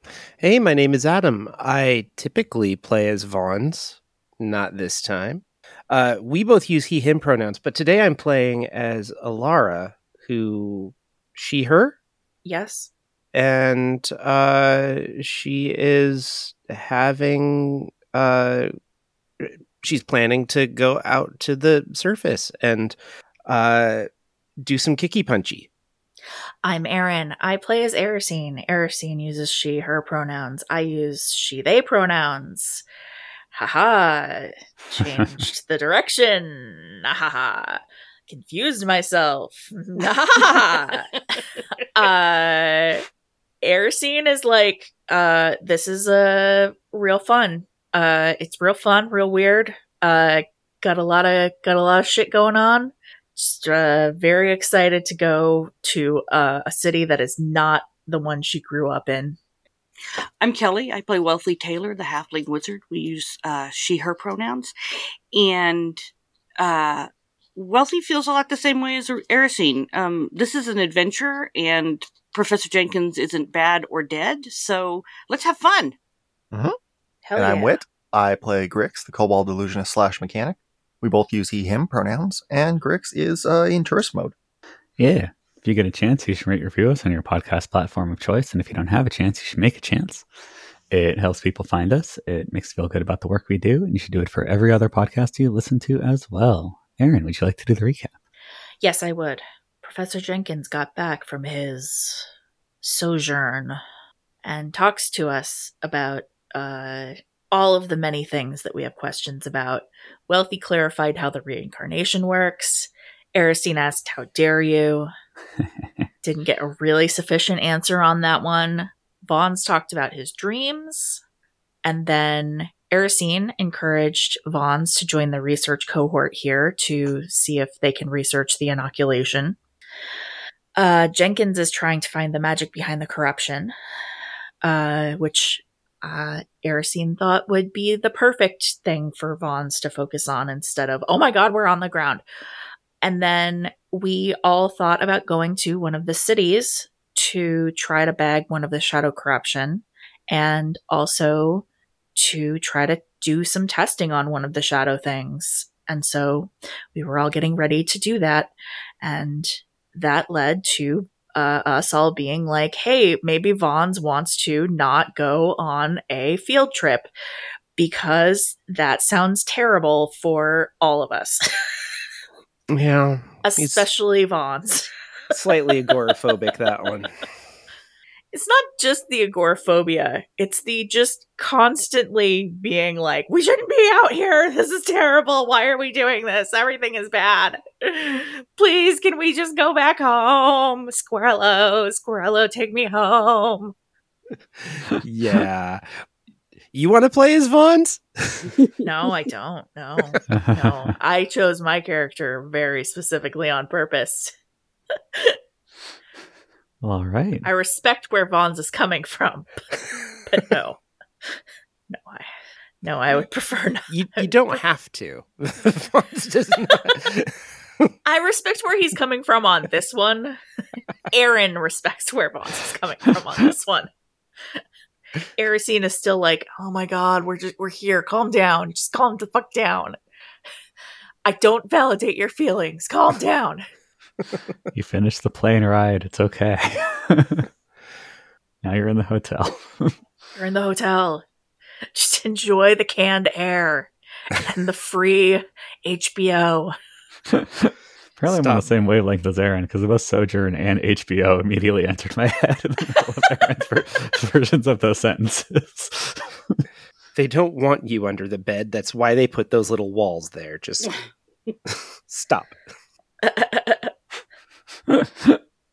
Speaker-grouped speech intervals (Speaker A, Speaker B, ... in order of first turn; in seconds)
Speaker A: 0.4-11.9, 13.3-18.7, 19.4-23.0, 23.5-24.1, 24.6-25.7, 172.7-173.9, 175.3-177.1, 194.6-195.8, 196.7-198.6, 213.9-217.3, 248.3-248.7, 257.1-260.9, 261.7-262.6
Speaker B: 12.4-12.9, 26.6-32.9, 33.5-41.1, 41.9-43.0, 43.6-59.4, 77.2-77.8, 98.8-102.3, 102.8-103.8, 104.4-115.1, 116.2-121.2, 121.8-129.6, 130.8-133.7, 134.6-142.2, 143.0-151.7, 152.2-167.1, 167.8-171.4, 173.4-174.9, 178.3-193.7, 198.8-204.3, 207.4-209.6, 210.3-211.4, 211.9-212.3, 212.8-214.3, 218.1-220.4, 221.1-223.9, 225.4-230.0, 231.2-233.7, 240.4-241.2, 241.9-246.7, 263.2-263.9
Speaker C: 60.4-64.7, 65.3-66.1, 66.6-76.0
Speaker D: 77.4-84.3
Speaker E: 85.0-90.2, 90.9-98.1, 200.3-200.8, 206.8-207.5, 234.7-237.5, 238.6-239.9, 247.3-256.6, 264.9-265.4